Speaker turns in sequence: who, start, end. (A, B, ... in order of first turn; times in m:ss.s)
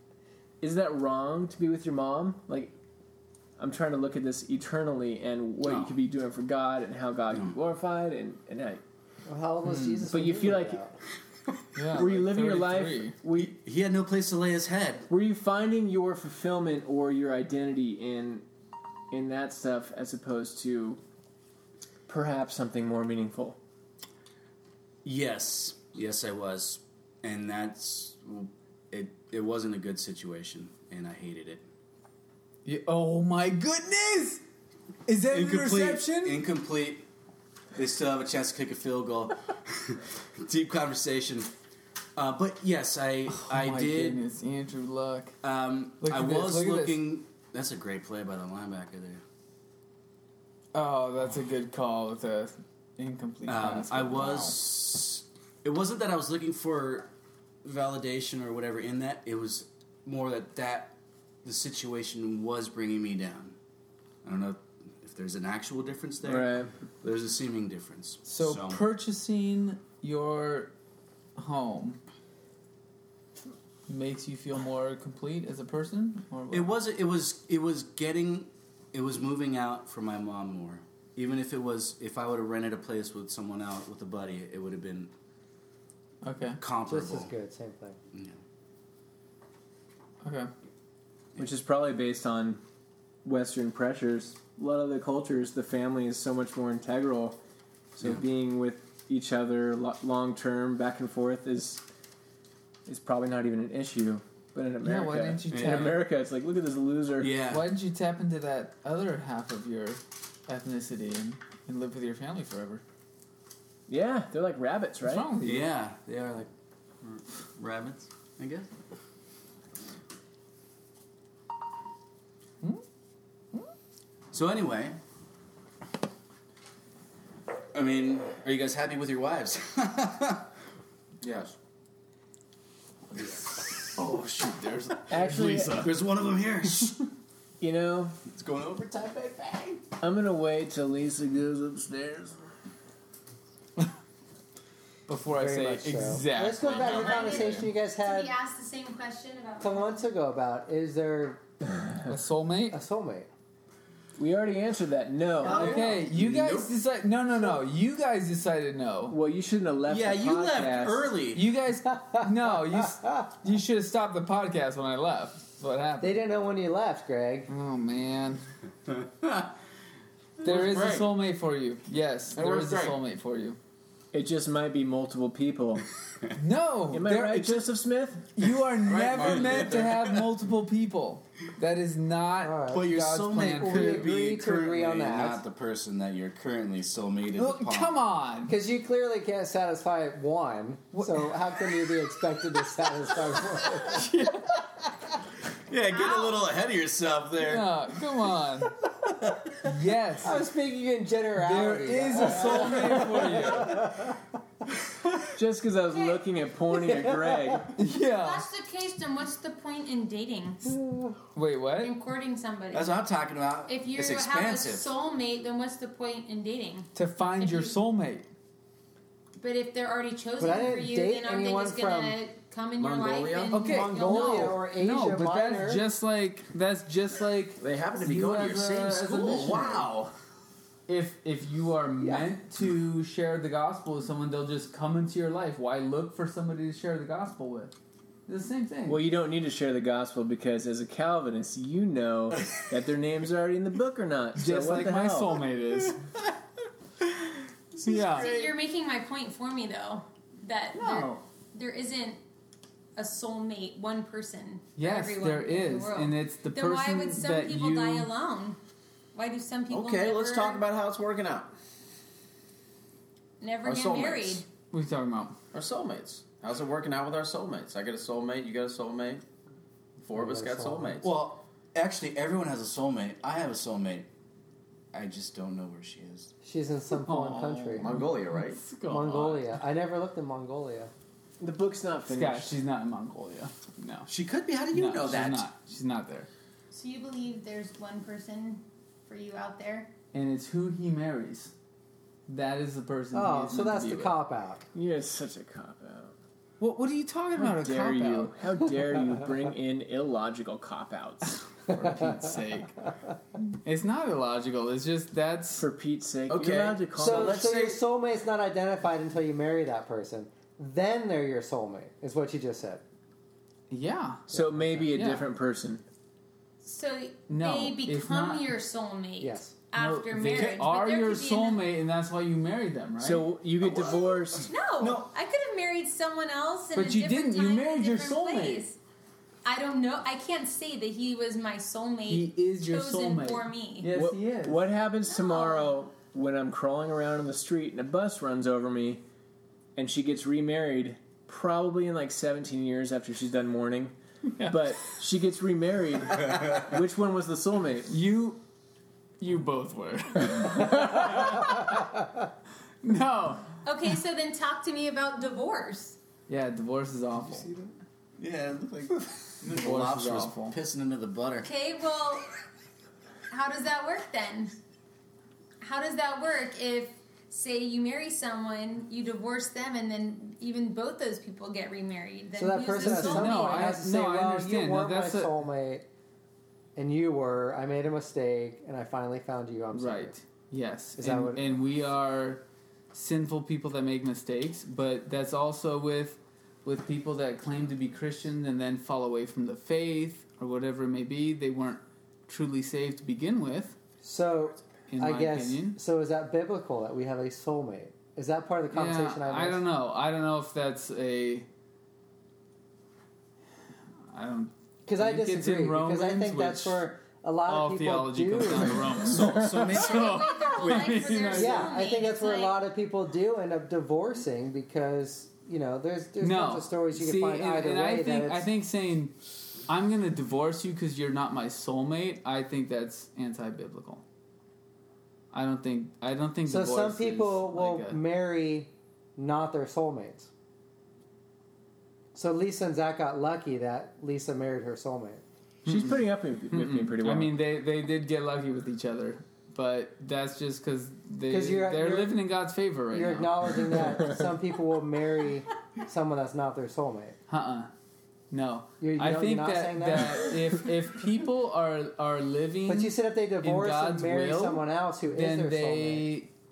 0:00.6-0:02.7 A
0:03.6-0:08.8 A
0:05.6-0:06.0 B
0:07.3-0:07.6 B
0:09.3-0:10.9 C
0:09.6-0:10.0 D
0:10.1-0:10.8 A
0:11.7-0:13.2 D
0:11.9-0:13.6 A
0:13.3-0:15.1 B
0:15.1-0:18.4 A
0:19.1-0:21.0 A
0:22.1-0:23.6 A
0:25.0-0:31.6 B
0:32.6-0:34.4 D
0:35.1-0:36.4 D
0:35.3-0:37.0 B
0:37.7-0:41.5 B
0:42.2-0:44.2 B
0:43.3-0:45.3 D
0:45.4-0:49.2 B
0:46.0-0:47.0 D
0:50.7-0:54.6 D
0:53.4-0:57.1 B
0:57.6-1:03.6 B
1:04.2-1:08.8 B
1:06.2-1:06.7 A
1:08.2-1:10.7 D
1:11.4-1:12.0 D
1:13.9-1:16.7 D
1:16.5-1:25.1 B
1:26.2-1:26.6 D
1:26.6-1:27.3 B
1:26.9-1:28.0 C
1:28.1-1:28.4 B
1:30.2-1:30.5 D
1:31.4-1:32.6 A
1:33.2-1:37.4 A
1:38.0-1:41.8 A
1:42.8-1:47.3 A
1:44.8-1:46.0 D
1:45.5-1:46.0 B
1:47.2-1:47.7 B
1:47.5-1:52.8 D
1:53.9-1:55.3 A
1:55.0-1:55.7 D
1:55.4-1:56.5 B
1:57.0-1:58.7 B
2:04.3-2:05.0 B
2:07.7-2:10.5 B
2:11.2-2:11.5 B
2:13.2-2:14.1 B
2:14.0-2:14.6 D
2:14.9-2:17.0 B
2:15.1-2:15.9 A
2:17.6-2:18.2 A
2:18.3-2:19.8 B
2:20.0-2:22.4 A
2:25.1-2:27.7 D
2:25.3-2:28.3 C
2:26.6-2:30.0 E
2:29.6-2:31.4 C
2:32.1-2:32.8 D
2:32.7-2:33.3 C
2:34.2-2:35.9 A
2:35.4-2:36.7 B
2:35.4-2:39.2 D
2:39.1-2:41.1 A
2:39.8-2:41.5 B
2:41.3-2:46.2 D
2:46.0-2:47.5 C
2:47.5-2:48.4 D
2:48.9-2:49.5 B
2:50.4-2:51.1 B
2:50.4-2:53.6 D
2:52.4-2:52.9 B
2:54.1-2:55.9 A
2:56.4-2:57.6 D
2:56.9-2:58.3 A
2:58.4-3:04.1 D
2:58.8-3:00.2 B
3:02.4-3:02.9 C
3:02.7-3:08.0 B
3:03.5-3:05.4 C
3:07.4-3:08.5 D
3:08.5-3:14.1 C
3:10.9-3:11.3 D
3:13.8-3:14.6 D
3:15.7-3:17.7 B
3:15.9-3:16.4 E
3:17.4-3:18.7 D
3:19.6-3:20.4 D
3:20.2-3:24.2 C
3:21.4-3:24.0 D
3:25.3-3:27.7 A
3:25.9-3:26.2 E
3:27.7-3:28.5 D
3:28.1-3:30.7 E
3:30.7-3:31.2 C
3:31.3-3:31.9 D
3:31.8-3:33.0 E
3:32.7-3:34.9 B
3:33.7-3:37.7 E
3:36.9-3:38.3 D
3:39.4-3:44.6 E
3:40.4-3:42.2 C
3:42.8-3:44.6 F
3:43.5-3:49.9 D
3:43.8-3:45.8 C
3:47.6-3:50.1 F
3:50.9-3:57.7 D
3:52.0-3:52.3 C
3:58.3-3:59.0 D
3:58.9-4:05.4 A
4:04.4-4:06.0 D
4:07.8-4:08.3 D
4:08.0-4:08.5 F
4:08.1-4:12.2 E
4:10.8-4:11.2 D
4:13.0-4:18.6 E
4:14.8-4:18.1 D
4:19.1-4:20.6 E
4:19.7-4:21.5 F
4:23.4-4:24.5 E
4:23.6-4:24.4 F
4:24.7-4:25.4 D
4:25.5-4:29.2 F
4:30.0-4:31.1 F
4:30.1-4:31.0 C
4:31.0-4:34.1 B
4:34.9-4:36.3 B
4:36.4-4:38.0 C
4:36.9-4:39.5 D
4:37.8-4:38.6 F
4:38.9-4:40.9 C
4:41.4-4:42.6 A
4:42.1-4:44.1 D
4:44.1-4:45.5 B
4:44.7-4:46.3 D
4:46.7-4:49.9 E
4:50.1-4:51.5 D
4:52.3-4:54.2 D
4:53.1-4:54.6 C
4:54.7-4:56.1 A
4:56.6-4:58.3 D
4:57.4-5:01.4 A
5:01.7-5:02.8 D
5:03.6-5:05.6 D
5:05.6-5:07.5 A
5:06.3-5:07.8 F
5:07.0-5:12.8 C
5:13.7-5:14.3 D
5:14.3-5:15.8 A
5:14.8-5:15.2 D
5:16.6-5:21.6 E
5:17.3-5:18.5 D
5:19.2-5:19.5 C
5:19.8-5:23.3 D
5:20.3-5:20.6 B
5:23.0-5:24.5 A
5:24.3-5:28.8 E
5:24.8-5:25.1 B
5:26.7-5:28.7 D
5:29.4-5:33.9 E
5:32.1-5:34.6 D
5:33.9-5:39.0 A
5:35.1-5:35.8 E
5:39.8-5:47.9 A
5:44.3-5:44.6 D
5:47.9-5:48.4 D
5:49.2-5:51.9 D
5:52.8-5:53.5 D
5:53.6-5:56.0 E
5:56.3-5:57.5 D
5:58.2-6:01.5 B
5:59.4-6:00.6 D
6:01.4-6:02.3 E
6:03.3-6:04.5 E
6:05.6-6:13.7 E
6:12.4-6:15.8 C
6:12.8-6:15.3 D
6:16.8-6:20.1 C
6:19.7-6:33.8 D
6:21.0-6:21.5 C
6:34.0-6:39.6 C
6:34.9-6:35.8 D
6:38.7-6:41.5 D
6:44.1-6:46.8 D
6:44.8-6:49.3 C
6:47.4-6:51.7 D
6:48.8-6:51.4 B
6:49.6-6:52.6 E
6:51.3-6:58.5 C
6:56.2-7:04.0 D
7:05.3-7:08.0 D
7:06.5-7:10.3 C
7:12.1-7:15.2 C
7:15.6-7:17.3 A
7:15.6-7:24.0 D
7:21.3-7:22.2 C
7:22.9-7:27.2 C
7:27.3-7:27.7 D
7:28.3-7:36.3 D
7:28.8-7:30.6 C
7:32.6-7:36.1 C